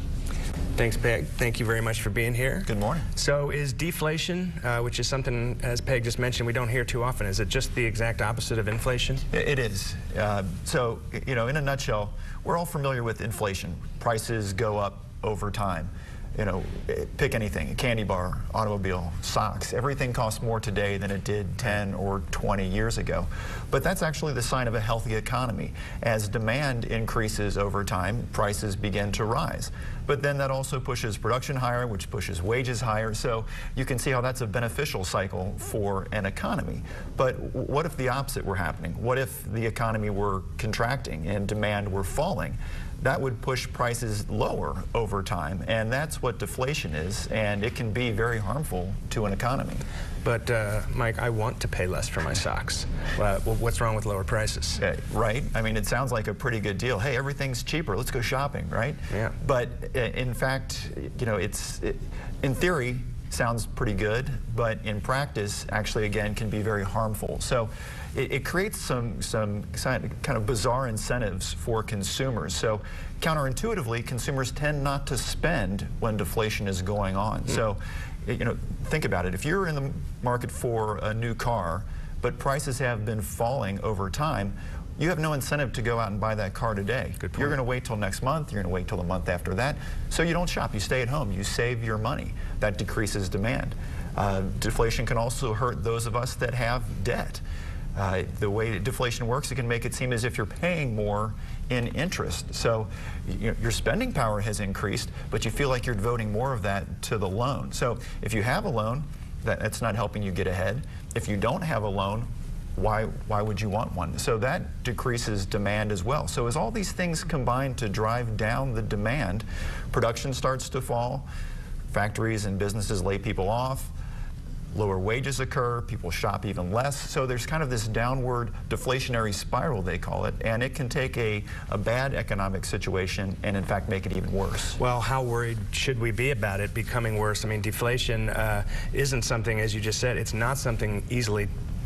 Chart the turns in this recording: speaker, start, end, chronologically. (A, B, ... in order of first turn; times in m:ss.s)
0:00.8-0:09.2 A
0:02.6-0:03.1 B
0:09.3-0:49.8 B
0:50.2-0:54.8 A
0:54.8-1:37.4 B
0:59.1-0:59.4 A
1:27.2-1:27.5 A
1:38.0-2:01.3 B
2:01.9-2:03.9 B
2:04.7-2:14.8 B
2:14.8-2:21.5 A